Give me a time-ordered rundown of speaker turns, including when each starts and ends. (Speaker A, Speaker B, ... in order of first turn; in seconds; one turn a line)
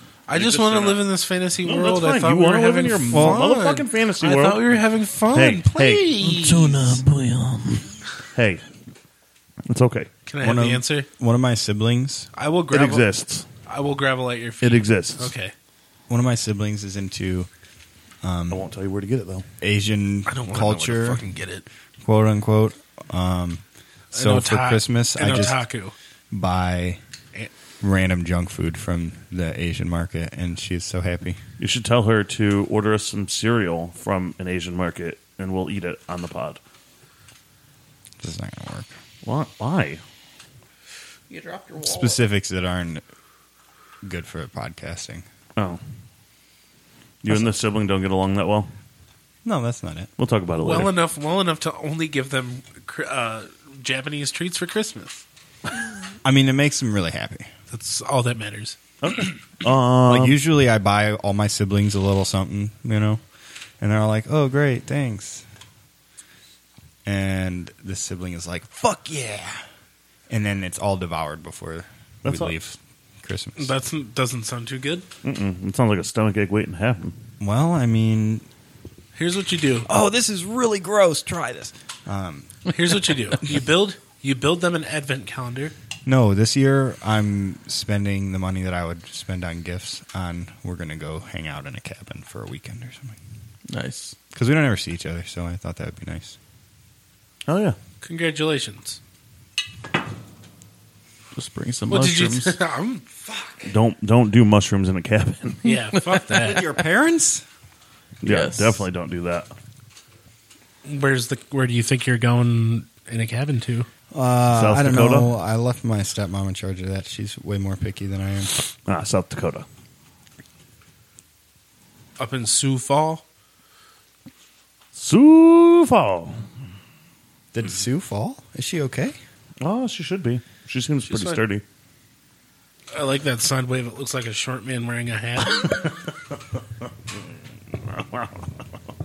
Speaker A: 0.3-7.0
Speaker B: 0.3-1.1
Speaker B: 1.6-4.7
Speaker C: 3.1-3.6
Speaker B: 5.3-8.7
Speaker B: 9.7-10.1
Speaker A: 10.3-11.1
Speaker C: 10.4-12.3
Speaker A: 12.3-13.1
Speaker B: 12.7-13.5
Speaker A: 13.6-15.5
Speaker B: 14.6-15.3
Speaker C: 16.1-17.5
Speaker C: 18.2-18.7
Speaker B: 18.5-19.5
Speaker C: 19.6-21.2
Speaker A: 20.3-21.7
Speaker C: 22.0-23.6
Speaker C: 24.1-25.6
Speaker A: 24.1-25.9
Speaker C: 26.3-27.0
Speaker C: 27.8-31.4
Speaker B: 31.6-36.6
Speaker C: 38.2-38.9
Speaker B: 39.2-40.0
Speaker D: 41.3-42.2
Speaker C: 41.8-43.0
Speaker C: 44.0-45.2
Speaker B: 47.2-48.7
Speaker C: 47.3-47.6
Speaker C: 49.5-50.1
Speaker B: 50.2-50.9
Speaker A: 50.6-55.2
Speaker C: 56.2-57.5
Speaker A: 57.7-58.8
Speaker B: 59.0-60.4
Speaker C: 60.1-63.2
Speaker C: 63.8-65.5
Speaker C: 67.0-69.6
Speaker C: 70.3-73.7
Speaker B: 72.2-72.6
Speaker A: 73.6-75.1
Speaker B: 75.2-77.2
Speaker C: 77.4-78.5
Speaker A: 79.2-79.9
Speaker C: 79.9-82.5
Speaker A: 82.7-85.7
Speaker C: 86.1-93.2
Speaker D: 93.7-94.2
Speaker C: 94.3-96.4
Speaker B: 97.5-97.8
Speaker A: 98.0-99.0
Speaker D: 101.3-102.6
Speaker A: 101.9-103.4
Speaker B: 103.7-105.7
Speaker A: 105.6-106.7
Speaker C: 106.3-107.5
Speaker D: 108.2-108.8
Speaker B: 108.2-109.5
Speaker A: 110.8-113.9
Speaker C: 114.1-118.5
Speaker B: 114.5-115.3
Speaker B: 118.9-119.7
Speaker A: 122.2-123.2
Speaker B: 124.9-126.4
Speaker C: 127.5-129.2
Speaker B: 129.6-131.6
Speaker A: 131.1-131.4
Speaker A: 132.9-135.9
Speaker B: 137.8-138.5